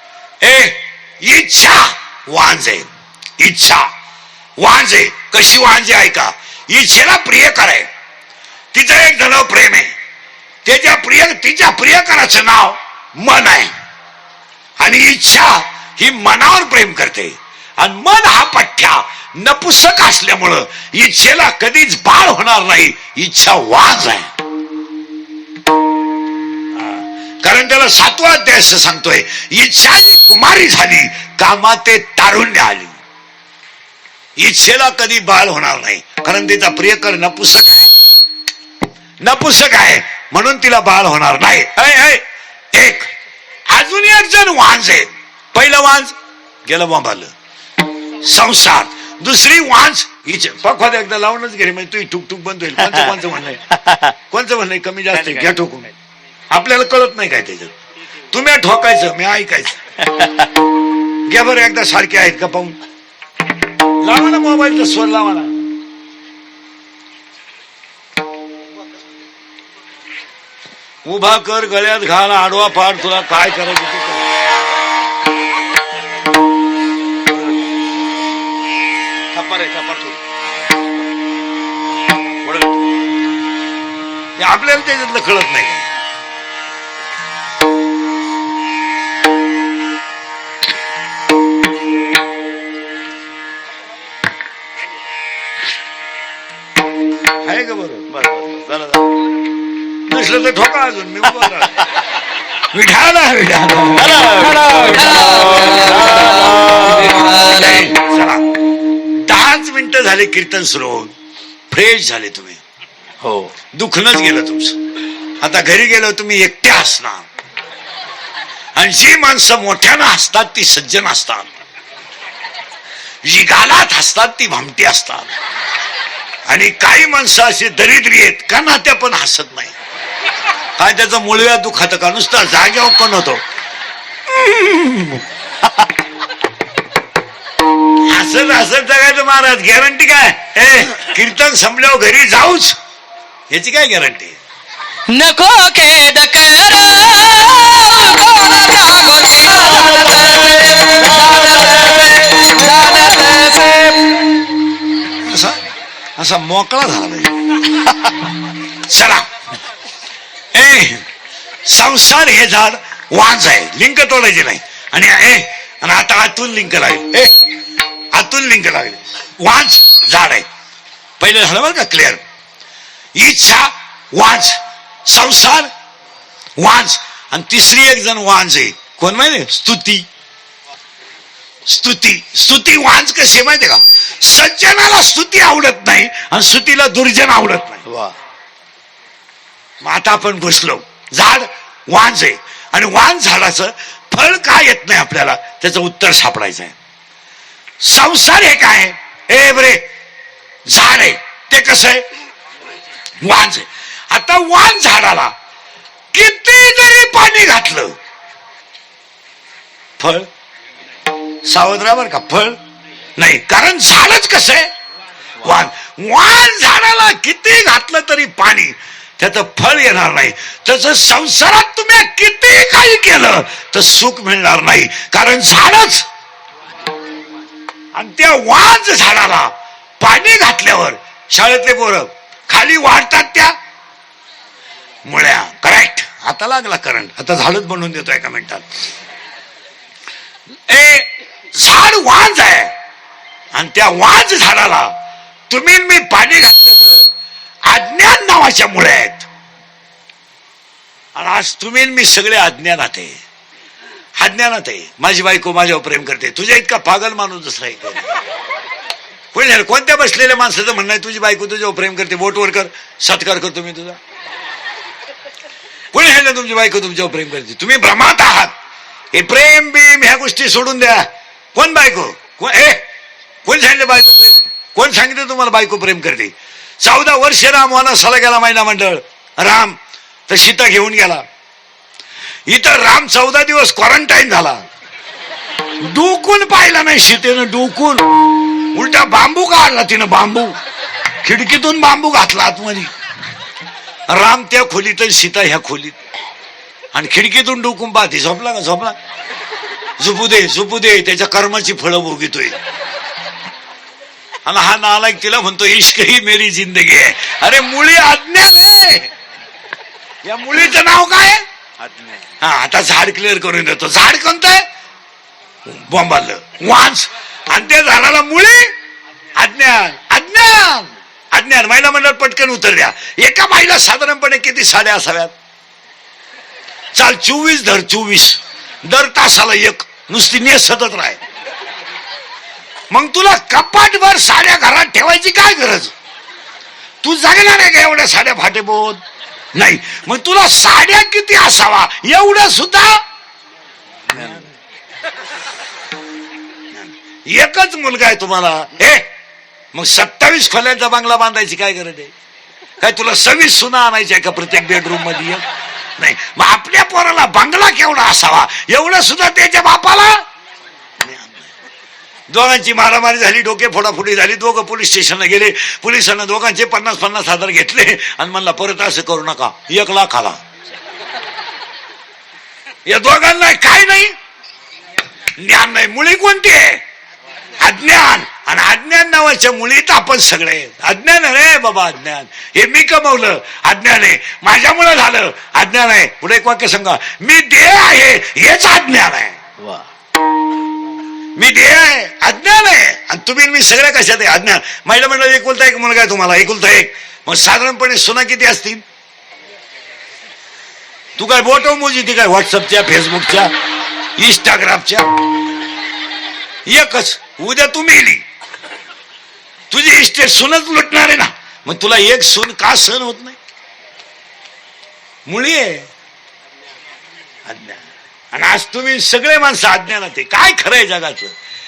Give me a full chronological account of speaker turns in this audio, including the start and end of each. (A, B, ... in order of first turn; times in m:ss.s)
0:00.4-0:03.9 A
0:04.6-0:07.9 A
0:08.7-0:09.9 A
0:10.6-0:13.7 A
0:14.8-0:24.3 A
0:26.8-0:33.0 A
0:34.4-0:37.9 A
0:39.2-0:43.1 A
0:43.7-0:47.3 A
0:48.2-0:53.7 A
0:53.7-0:54.1 B
0:54.3-0:55.9 A
0:55.1-0:55.7 B
0:56.5-0:57.8 A
0:58.3-0:59.8 A
1:00.1-1:00.5 B
1:01.3-1:02.8 A
1:04.0-1:05.6 A
1:11.0-1:14.2 A
1:19.3-1:20.2 A
1:22.5-1:22.8 B
1:24.4-1:25.8 A
1:37.4-1:38.0 A
1:38.1-1:39.1 B
1:40.1-1:41.9 A
1:42.7-1:44.3 A
1:44.0-1:47.2 B
1:44.5-1:47.9 C
1:47.3-1:48.4 A
1:49.3-1:51.1 A
1:51.7-1:52.6 A
1:53.2-1:53.5 B
1:53.7-1:54.8 A
1:55.4-1:57.3 A
1:58.8-2:01.5 A
2:03.2-2:05.3 A
2:06.5-2:09.7 A
2:10.8-2:13.4 A
2:14.3-2:15.2 A
2:18.1-2:22.8 A
2:23.5-2:24.4 A
2:25.1-2:34.5 C
2:35.3-2:35.6 A
2:36.2-2:37.3 A
2:38.9-2:39.3 A
2:40.5-2:41.0 A
2:41.7-2:47.3 A
2:48.1-2:50.5 A
2:51.2-2:52.2 A
2:53.2-2:55.7 A
2:56.6-3:00.1 A
3:01.7-3:07.8 A
3:07.8-3:08.1 B
3:09.8-3:16.7 A
3:17.8-3:19.8 A
3:20.7-3:22.0 A
3:23.2-3:25.3 A
3:26.1-3:28.0 A
3:30.0-3:30.3 A
3:31.5-3:32.6 A
3:33.2-3:34.7 A
3:35.4-3:46.0 A
3:48.0-3:53.6 A
3:55.0-3:58.7 A
4:00.7-4:02.7 A
4:03.5-4:04.9 A
4:05.5-4:07.1 A
4:07.7-4:09.3 A
4:11.2-4:13.2 A
4:14.2-4:18.1 A
4:19.3-4:24.0 A
4:25.9-4:28.5 A
4:29.1-4:32.8 A
4:33.4-4:39.8 A
4:40.3-4:41.2 A
4:42.5-4:44.6 A
4:45.8-4:48.1 A
4:48.7-4:50.6 A
4:51.2-4:52.9 A
4:54.1-4:56.0 A
4:56.9-4:59.0 A
5:00.0-5:02.6 A
5:04.4-5:09.1 A
5:10.2-5:11.4 A
5:11.8-5:12.3 B
5:12.4-5:14.6 A
5:15.6-5:18.7 A
5:19.4-5:25.3 A
5:26.9-5:31.2 A
5:32.9-5:35.9 A
5:37.0-5:39.0 A
5:39.5-5:43.0 A
5:44.1-5:44.5 B
5:46.8-5:49.1 A
5:49.7-5:52.1 A
5:52.8-5:55.4 A
5:56.0-6:00.2 A
6:01.0-6:01.5 A
6:02.3-6:10.4 A
6:12.9-6:14.1 A
6:15.4-6:16.8 A
6:17.6-6:29.4 A
6:29.6-6:29.9 B
6:31.4-6:38.8 A
6:41.2-6:43.5 A
6:44.2-6:45.1 A
6:46.6-6:48.2 A
6:49.7-6:53.4 A
6:55.3-6:55.9 A
6:57.4-6:57.8 A
6:58.3-7:01.4 A